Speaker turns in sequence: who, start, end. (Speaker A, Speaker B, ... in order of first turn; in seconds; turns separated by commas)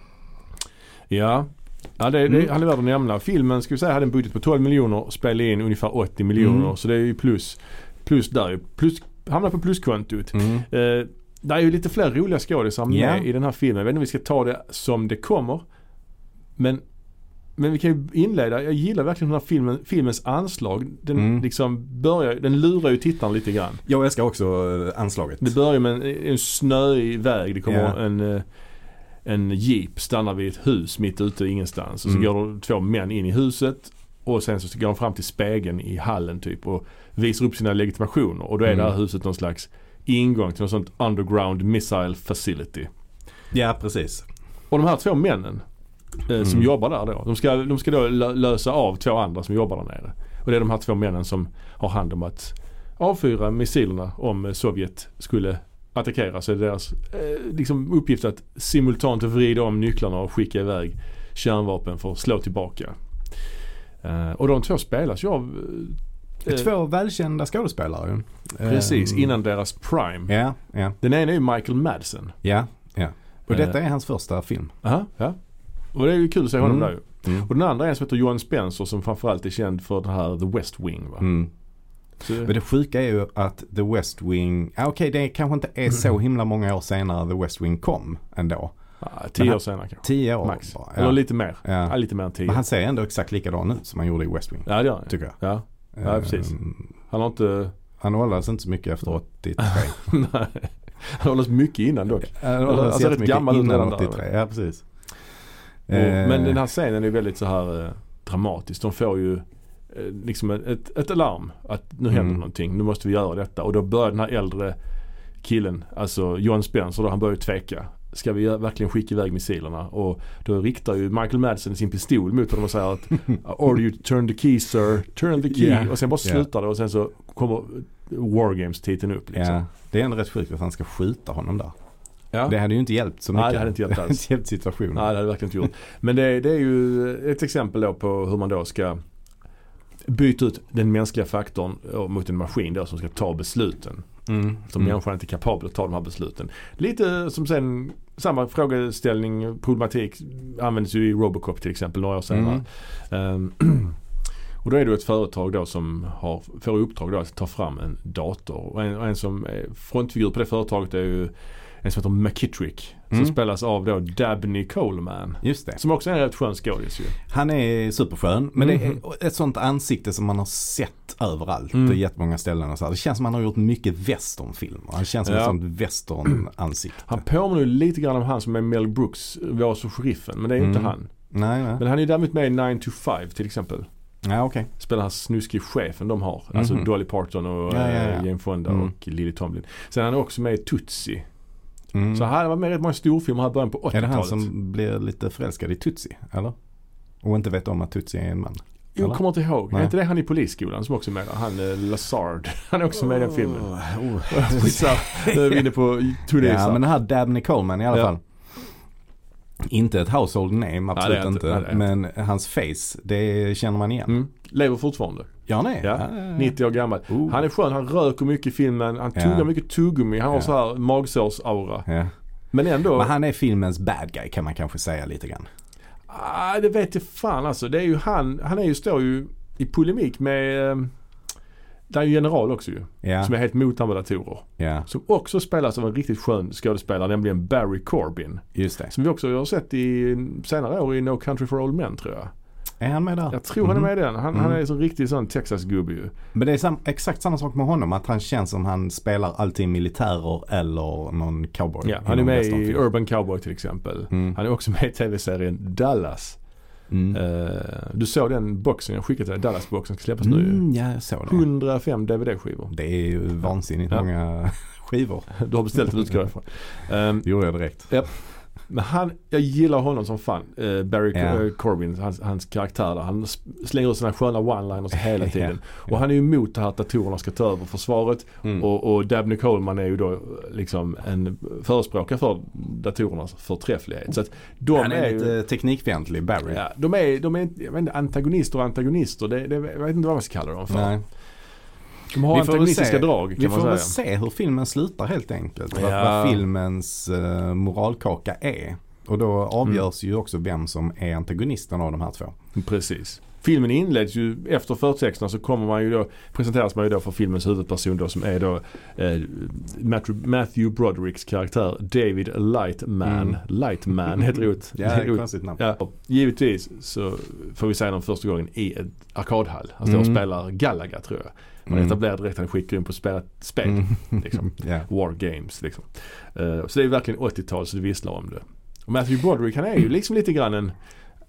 Speaker A: 1.1-15.6, Speaker B: 6.4-6.7, Speaker B: 10.3-10.7, Speaker B: 12.9-13.3, Speaker A: 16.6-16.8, Speaker A: 17.6-23.8, Speaker B: 21.2-21.4, Speaker B: 23.9-25.5, Speaker A: 25.4-28.4, Speaker B: 27.7-28.0, Speaker A: 29.2-42.9, Speaker B: 43.5-44.3, Speaker A: 44.7-45.6, Speaker A: 46.3-62.9, Speaker A: 64.0-66.7, Speaker B: 66.5-69.3, Speaker A: 68.6-70.4, Speaker B: 70.3-71.0, Speaker A: 71.0-72.4, Speaker B: 72.4-74.7, Speaker A: 74.8-75.4, Speaker A: 75.9-81.3, Speaker B: 76.6-77.5, Speaker B: 81.2-81.5, Speaker A: 82.2-82.5, Speaker B: 82.4-88.8, Speaker A: 89.0-92.6, Speaker B: 89.4-95.4, Speaker A: 94.7-97.7, Speaker B: 96.0-96.8, Speaker B: 98.0-100.0, Speaker A: 99.6-104.2, Speaker B: 102.3-104.9, Speaker B: 105.9-106.6, Speaker A: 105.9-114.8, Speaker B: 112.1-112.4, Speaker A: 115.4-129.6, Speaker B: 125.5-126.5, Speaker B: 129.3-131.7, Speaker B: 132.5-135.1, Speaker A: 133.3-134.2, Speaker A: 134.9-139.0, Speaker A: 140.1-144.1, Speaker B: 144.3-144.9, Speaker A: 144.7-154.0, Speaker B: 152.3-152.6, Speaker A: 154.6-161.3, Speaker A: 161.8-167.2, Speaker B: 165.4-165.8, Speaker B: 167.3-177.2, Speaker A: 168.6-168.9, Speaker A: 175.2-175.6, Speaker A: 177.1-181.1, Speaker B: 180.6-181.8, Speaker A: 181.8-183.9, Speaker B: 184.2-184.7, Speaker A: 184.8-191.3, Speaker B: 186.5-186.9, Speaker B: 187.7-188.9, Speaker B: 191.9-192.3, Speaker A: 192.1-194.5, Speaker B: 193.9-196.6, Speaker B: 197.2-199.2, Speaker A: 199.0-206.8, Speaker B: 203.1-205.7, Speaker B: 206.4-208.2, Speaker B: 209.6-214.2, Speaker A: 210.9-211.8, Speaker A: 214.1-221.9, Speaker B: 215.5-216.6, Speaker B: 217.1-217.4, Speaker B: 219.2-219.5, Speaker B: 221.9-222.1, Speaker A: 222.5-223.1, Speaker B: 222.9-225.5, Speaker A: 226.1-230.9, Speaker A: 231.9-242.3, Speaker B: 233.0-233.3, Speaker B: 234.6-234.9, Speaker B: 238.6-238.9, Speaker B: 242.8-244.6, Speaker A: 243.3-246.1, Speaker B: 246.3-252.8, Speaker A: 251.8-256.4, Speaker B: 254.1-254.4, Speaker B: 256.9-257.2, Speaker A: 257.1-260.6, Speaker B: 260.2-261.4, Speaker A: 261.3-262.7, Speaker B: 262.7-265.3, Speaker A: 265.3-267.3, Speaker B: 267.2-267.9, Speaker A: 267.8-285.4, Speaker B: 271.1-271.4, Speaker B: 275.2-275.5, Speaker B: 284.7-286.6, Speaker A: 286.5-290.9, Speaker B: 290.7-291.0, Speaker A: 292.1-293.9, Speaker B: 292.3-302.4, Speaker A: 295.7-296.4, Speaker A: 302.6-330.8, Speaker B: 313.0-313.4, Speaker B: 314.8-315.6, Speaker B: 319.9-320.2, Speaker B: 321.7-322.0, Speaker B: 323.6-324.9